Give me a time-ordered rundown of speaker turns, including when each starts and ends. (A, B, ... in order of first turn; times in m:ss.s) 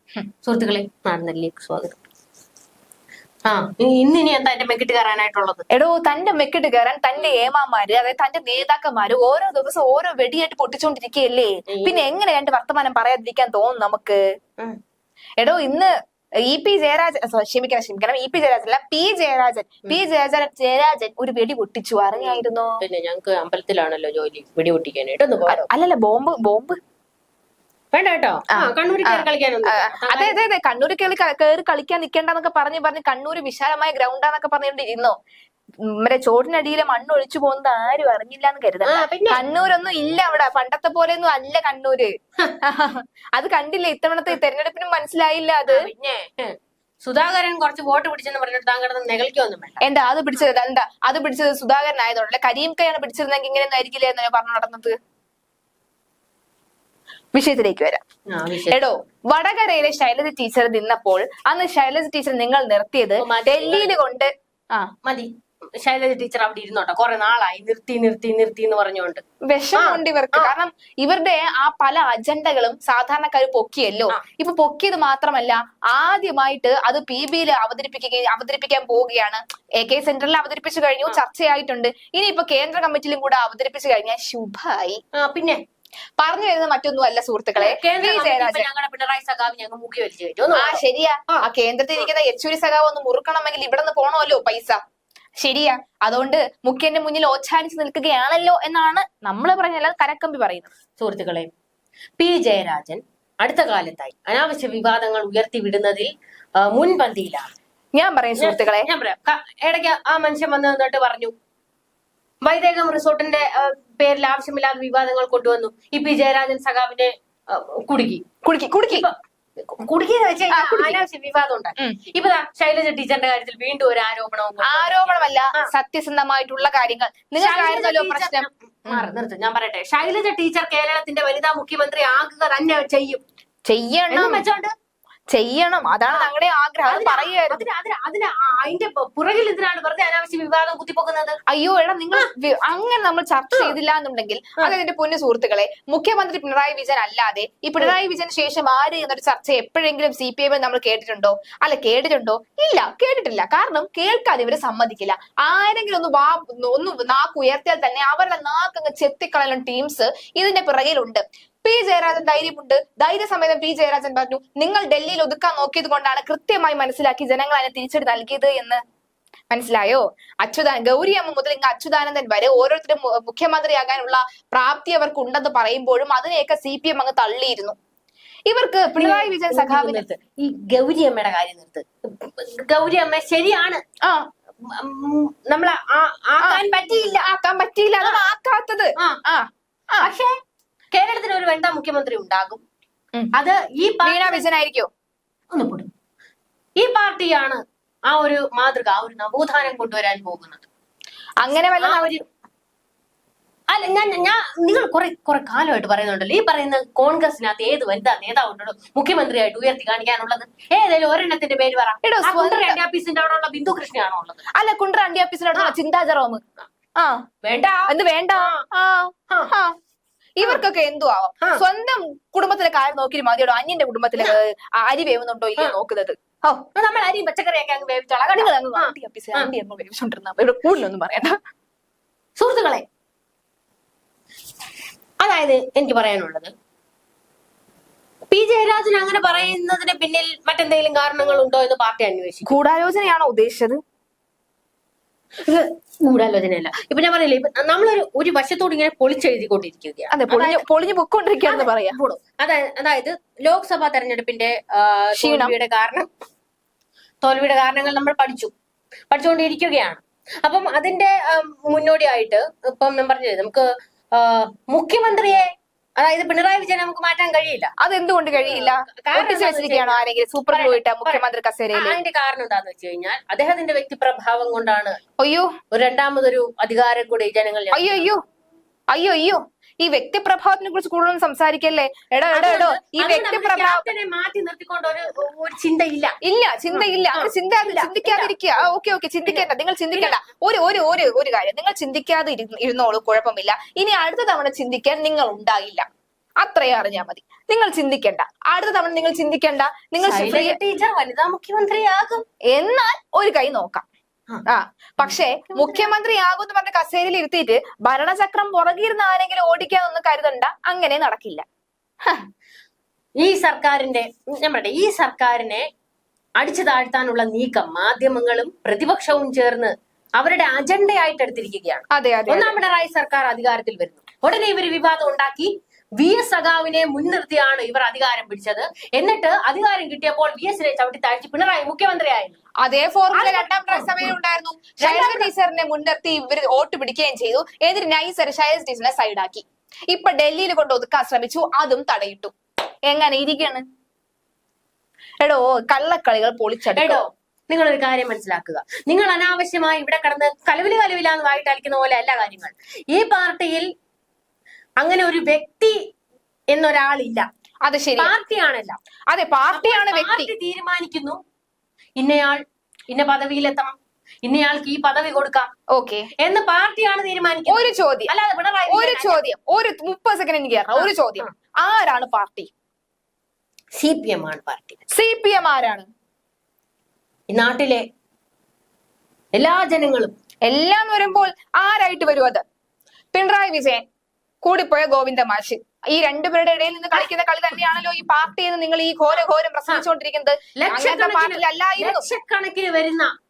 0:00.4-0:02.0 A
0:03.5-0:05.6 A
0:05.7-0:14.2 B
0:11.7-0:12.1 A
0:15.4-0:15.9 B
0:16.5-0:22.8 B
0:22.2-0:25.7 A
0:25.5-0:26.8 B
0:27.9-0:30.4 A
0:28.5-0:35.2 B
0:35.9-0:45.8 B
0:38.9-0:39.4 A
0:45.7-0:49.8 A
0:49.8-0:55.0 B
0:57.3-0:58.0 B
0:58.3-0:58.8 A
0:58.7-1:04.9 B
1:03.2-1:03.9 A
1:05.0-1:09.2 A
1:09.5-1:25.0 B
1:09.8-1:10.5 A
1:25.2-1:25.6 A
1:26.2-1:28.7 B
1:27.6-1:31.4 A
1:30.6-1:34.8 B
1:35.4-1:40.7 B
1:41.0-1:41.5 A
1:42.2-1:47.5 A
1:47.9-1:48.9 B
1:48.4-1:51.3 A
1:52.4-1:58.2 A
1:58.4-1:59.1 B
1:58.9-2:05.7 A
2:00.5-2:01.0 B
2:04.6-2:09.1 B
2:07.4-2:13.2 A
2:13.7-2:14.4 B
2:14.1-2:14.7 A
2:15.3-2:17.6 B
2:16.9-2:21.4 A
2:21.5-2:48.8 B
2:23.5-2:23.8 A
2:49.5-2:57.8 B
2:58.5-3:00.0 B
2:59.0-3:03.8 A
3:04.6-3:07.3 A
3:07.2-3:10.1 B
3:10.0-3:10.3 A
3:10.9-3:12.6 A
3:13.3-3:14.4 A
3:14.0-3:14.9 B
3:15.5-3:15.9 A
3:16.8-3:20.7 A
3:21.4-3:22.0 B
3:21.8-3:22.2 A
3:23.7-3:34.5 A
3:32.0-3:32.8 B
3:34.6-3:36.4 B
3:37.4-3:38.6 A
3:37.9-3:39.8 B
3:40.4-3:46.6 B
3:46.8-3:49.5 A
3:48.3-3:51.4 B
3:52.4-3:52.8 A
3:55.2-3:56.5 A
3:58.3-4:02.5 A
4:02.5-4:03.8 B
4:05.4-4:10.6 A
4:10.1-4:12.0 B
4:11.4-4:16.1 A
4:15.2-4:15.5 B
4:17.2-4:18.5 A
4:19.1-4:27.7 A
4:27.8-4:32.0 B
4:28.3-4:35.0 A
4:35.2-4:35.5 B
4:35.7-4:38.1 A
4:37.7-4:38.2 B
4:38.9-4:43.9 B
4:42.3-4:46.1 A
4:46.2-4:55.8 B
4:46.7-4:48.3 A
4:49.3-4:50.2 A
4:56.4-5:00.6 B
5:00.0-5:02.2 A
5:02.5-5:03.9 B
5:04.5-5:11.4 B
5:05.0-5:05.9 A
5:13.2-5:15.6 A
5:16.4-5:32.4 A
5:21.9-5:22.5 B
5:32.6-5:42.3 B
5:33.1-5:34.1 A
5:34.8-5:35.3 A
5:42.9-5:43.6 B
5:45.2-5:47.0 B
5:46.7-5:53.7 A
5:54.8-5:55.8 A
5:56.5-5:57.3 A
5:57.6-5:58.2 B
5:58.0-5:58.8 A
5:59.1-6:00.3 B
5:59.5-6:01.2 A
6:02.0-6:05.5 A
6:05.7-6:06.1 B
6:06.2-6:09.2 A
6:07.5-6:08.1 B
6:08.7-6:12.5 B
6:10.8-6:11.3 A
6:13.8-6:14.8 A
6:14.9-6:15.9 B
6:17.3-6:17.8 A
6:19.3-6:20.1 A
6:20.5-6:22.4 B
6:23.1-6:23.8 B
6:24.4-6:32.0 B
6:29.1-6:29.9 A
6:30.6-6:33.1 A